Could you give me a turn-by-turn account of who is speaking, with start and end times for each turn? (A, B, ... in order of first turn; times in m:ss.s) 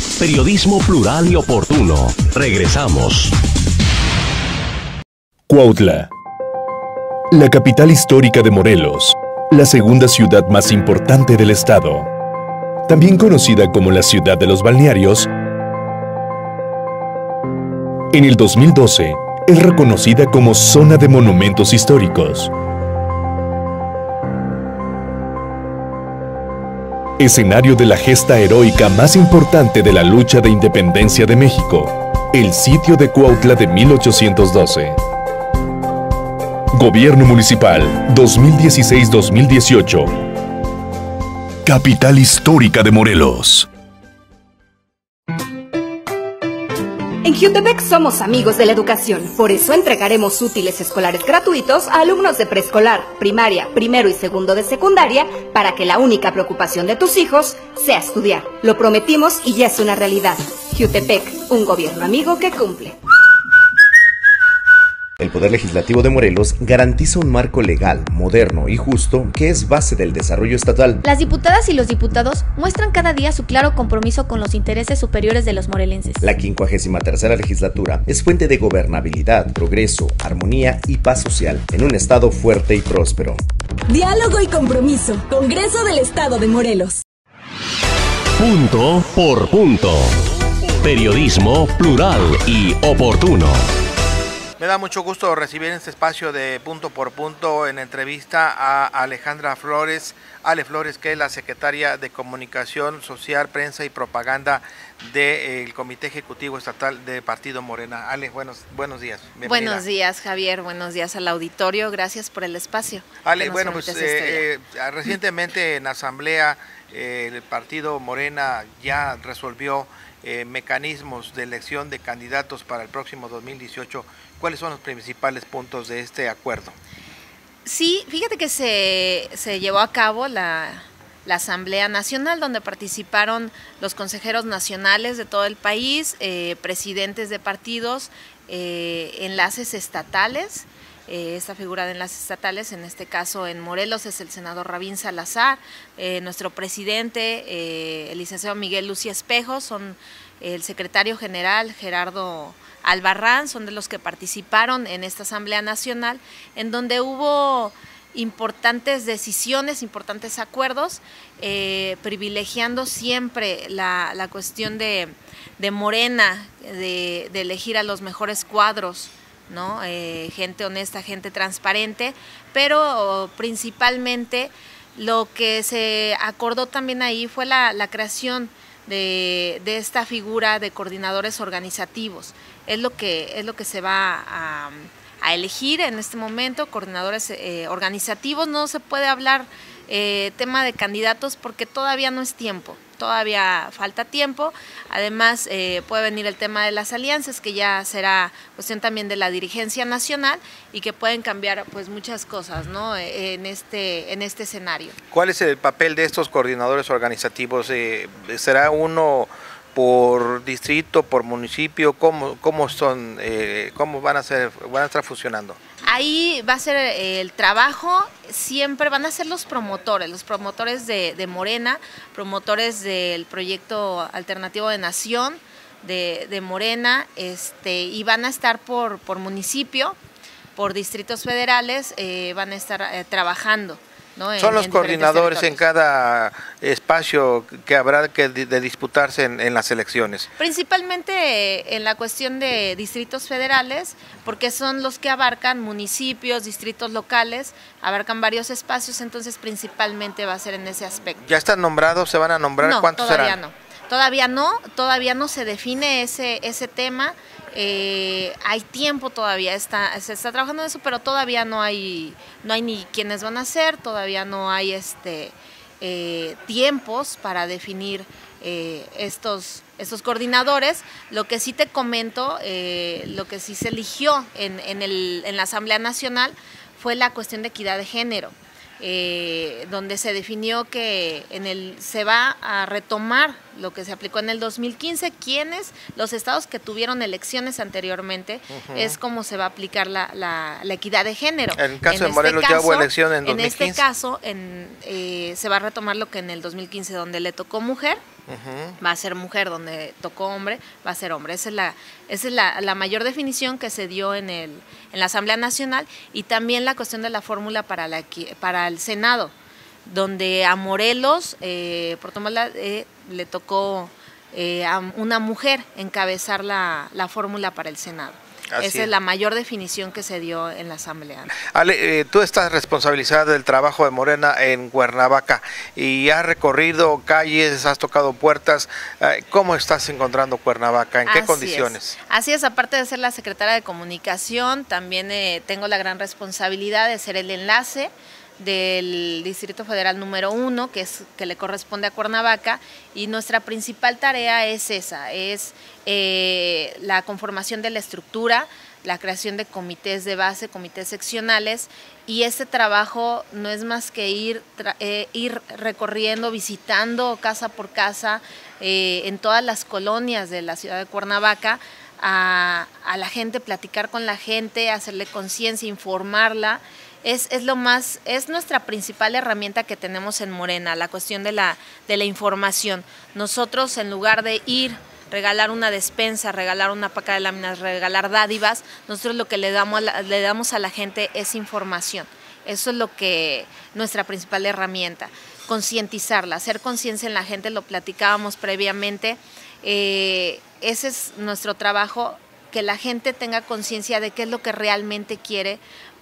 0:00.2-0:03.4 A
0:05.5-0:06.1 B
0:07.3-0:12.1 B
0:12.9-0:15.3 B
0:18.1-0:22.5 B
0:27.2-0:35.0 B
0:36.7-0:40.1 B
0:41.6-0:43.7 B
0:47.2-1:03.0 C
1:05.2-1:11.0 D
1:11.0-1:16.2 E
1:16.2-1:23.4 D
1:23.9-1:27.0 F
1:28.4-1:30.2 A
1:30.8-1:33.6 A
1:34.6-1:49.8 G
1:49.4-1:54.4 H
1:53.2-2:06.8 G
2:07.6-3:25.0 H
3:25.1-3:35.6 G
3:35.8-3:50.0 H
3:50.6-3:55.6 H
3:54.4-4:00.3 G
4:00.4-4:11.2 H
4:11.2-4:13.4 G
4:12.6-4:58.0 H
4:48.5-4:49.0 G
4:51.6-4:53.8 G
4:58.3-4:58.8 G
4:58.8-5:09.3 H
5:09.9-5:21.3 H
5:18.6-5:18.9 G
5:21.4-5:32.0 G
5:31.1-6:35.6 H